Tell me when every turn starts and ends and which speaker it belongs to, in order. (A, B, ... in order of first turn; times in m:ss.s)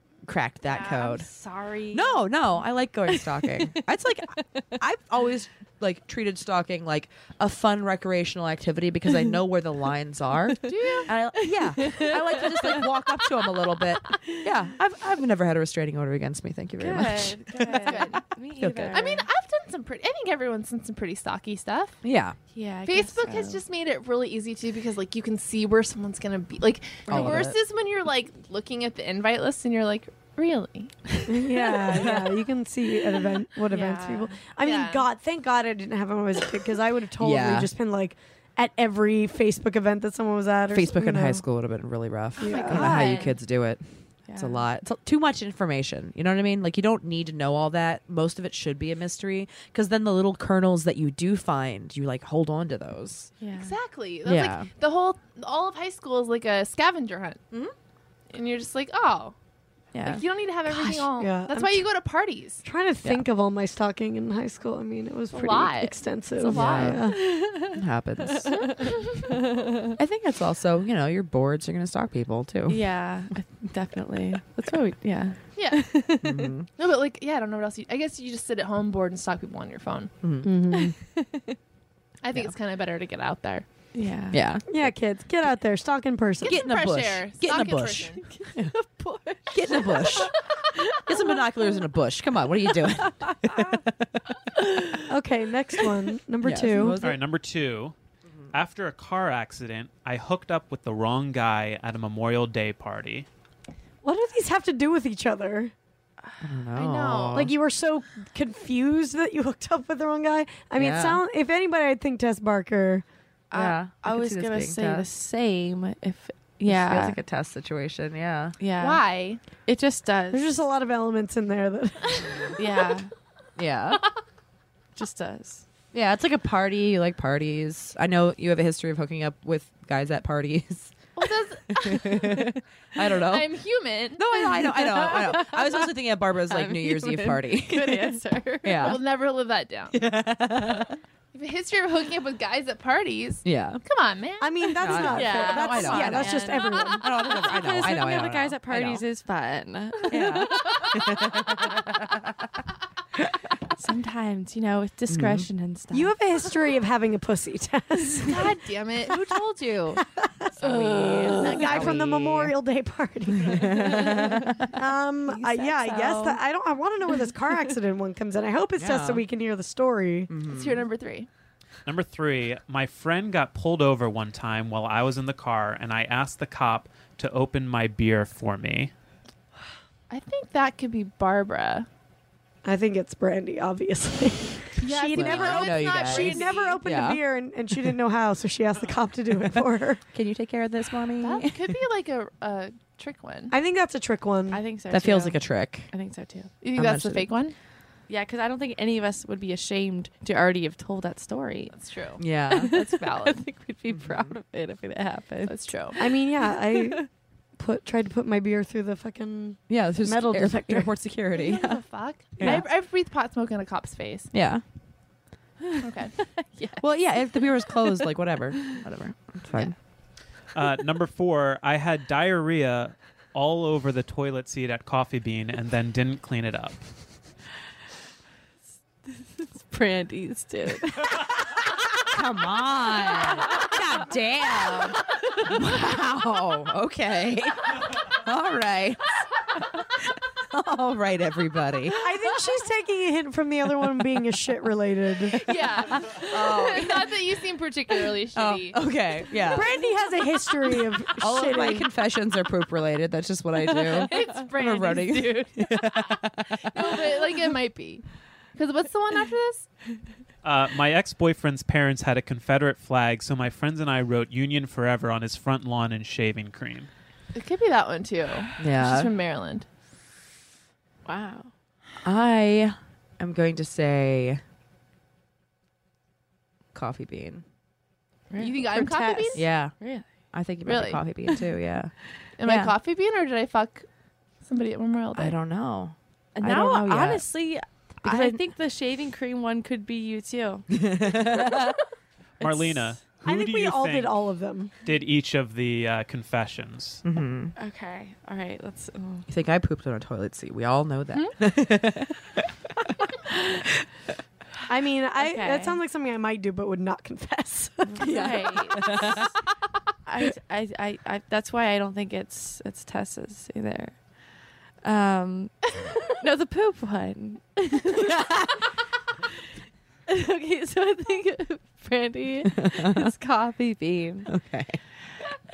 0:00.2-0:01.3 A
0:00.7-0:02.4 B
0:01.9-0:18.0 A
0:04.4-0:04.7 B
0:10.6-0:11.1 C
0:11.5-0:12.9 B
0:16.8-0:19.2 B
0:17.8-0:18.3 C
0:18.6-0:19.0 A
0:18.9-0:22.0 C
0:22.0-0:22.4 A
0:22.5-0:23.6 B
0:22.9-0:31.2 C
0:27.1-0:27.4 D
0:27.1-0:27.6 A
0:31.3-0:41.4 D
0:33.7-0:34.4 B
0:34.6-0:35.1 C
0:37.2-0:37.7 A
0:40.7-0:43.8 A
0:42.4-0:43.3 D
0:42.4-0:43.4 C
0:42.9-0:43.2 B
0:44.3-0:44.6 B
0:44.4-0:53.3 A
0:53.4-0:53.7 B
0:53.6-0:57.4 C
0:54.2-0:54.7 A
0:58.3-0:59.4 C
0:59.9-1:01.0 A
1:00.0-1:02.6 C
1:01.2-1:01.9 D
1:02.6-1:07.2 D
1:05.3-1:07.1 C
1:06.5-1:08.7 A
1:07.1-1:07.8 B
1:08.4-1:09.9 B
1:10.0-1:12.8 A
1:12.7-1:16.5 B
1:15.6-1:16.0 C
1:16.2-1:16.7 A
1:16.8-1:20.1 C
1:20.2-1:20.5 A
1:20.4-1:21.0 D
1:21.2-1:21.6 B
1:22.2-1:23.6 C
1:23.9-1:24.4 B
1:24.3-1:24.8 A
1:24.7-1:26.6 D
1:26.4-1:28.3 C
1:26.4-1:28.7 A
1:28.2-1:31.4 B
1:29.5-1:30.4 A
1:31.0-1:34.3 A
1:33.2-1:33.8 B
1:34.6-1:35.1 B
1:35.1-1:37.0 D
1:36.4-1:37.2 A
1:37.0-1:38.0 E
1:38.5-1:43.3 E
1:44.0-1:45.7 D
1:46.4-1:47.5 A
1:46.8-1:47.5 C
1:47.3-1:53.0 D
1:50.8-1:51.2 A
1:53.5-1:57.2 B
1:53.5-1:55.1 A
1:56.7-1:58.6 A
1:58.6-2:00.6 B
1:58.8-1:59.4 C
2:00.3-2:02.5 D
2:02.6-2:03.1 B
2:03.6-2:04.1 A
2:05.0-2:05.6 B
2:05.9-2:10.9 A
2:11.2-2:12.5 C
2:11.7-2:13.5 A
2:13.1-2:14.5 C
2:14.2-2:19.0 A
2:14.6-2:19.0 B
2:18.8-2:20.0 C
2:19.9-2:21.0 A
2:21.3-2:25.6 C
2:23.4-2:23.8 A
2:24.4-2:27.1 D
2:24.8-2:29.0 A
2:25.1-2:30.7 B
2:26.6-2:27.0 C
2:30.1-2:32.1 A
2:33.8-2:36.1 B
2:35.1-2:35.5 A
2:35.9-2:38.5 D
2:38.2-2:40.0 C
2:40.0-2:50.3 D
2:40.6-2:42.6 A
2:40.6-2:41.6 C
2:41.0-2:41.4 B
2:43.4-2:44.7 A
2:45.4-2:46.2 C
2:45.9-2:46.3 B
2:48.8-2:49.2 A
2:50.3-2:50.8 A
2:50.5-2:51.3 C
2:51.9-2:58.9 E
3:00.1-3:01.9 C
3:02.6-3:10.0 D
3:04.8-3:06.8 C
3:05.1-3:07.2 A
3:10.1-3:11.6 A
3:11.2-3:13.5 C
3:13.5-3:14.6 D
3:14.5-3:16.5 B
3:14.9-3:15.9 A
3:16.6-3:17.6 C
3:16.8-3:17.3 A
3:18.1-3:21.7 B
3:21.7-3:23.4 C
3:22.2-3:22.7 A
3:22.5-3:27.1 B
3:23.9-3:24.3 A
3:25.5-3:26.0 C
3:26.0-3:30.9 D
3:29.7-3:31.8 A
3:31.3-3:34.3 C
3:32.4-3:32.7 A
3:34.3-3:34.6 A
3:35.6-3:38.0 B
3:35.8-3:36.2 C
3:36.8-3:39.7 A
3:40.5-3:46.8 E
3:49.4-3:51.1 B
3:52.0-3:59.9 A
4:00.4-4:02.0 A
4:02.0-4:05.4 D
4:05.4-4:09.6 C
4:06.0-4:07.2 A
4:08.3-4:09.7 A
4:09.5-4:11.9 D
4:11.2-4:17.1 A
4:13.9-4:19.7 C
4:20.4-4:26.9 E
4:27.3-4:29.6 C
4:28.6-4:29.1 A
4:31.1-4:31.5 B
4:32.0-4:34.4 A
4:36.7-4:37.4 A
4:38.3-4:40.1 B
4:38.4-4:39.4 C
4:39.4-4:42.7 A
4:40.6-4:41.0 C
4:42.4-4:43.9 C
4:44.4-4:45.4 C
4:45.2-4:47.3 A
4:46.4-4:50.7 B
4:48.0-4:48.4 A
4:50.7-4:51.8 A
4:52.4-4:52.9 B
4:52.4-4:54.2 E
4:53.2-4:54.7 D
4:54.8-4:57.0 E
4:57.0-4:57.5 A
4:57.6-4:59.3 B
4:59.3-5:02.4 A
5:03.3-5:03.6 A
5:04.7-5:08.4 D
5:05.2-5:05.8 B
5:07.9-5:09.3 B
5:08.0-5:09.2 A
5:10.1-5:14.1 B
5:14.8-5:18.3 B
5:18.0-5:18.4 A
5:20.1-5:24.3 B
5:22.6-5:23.1 A
5:24.3-5:24.8 A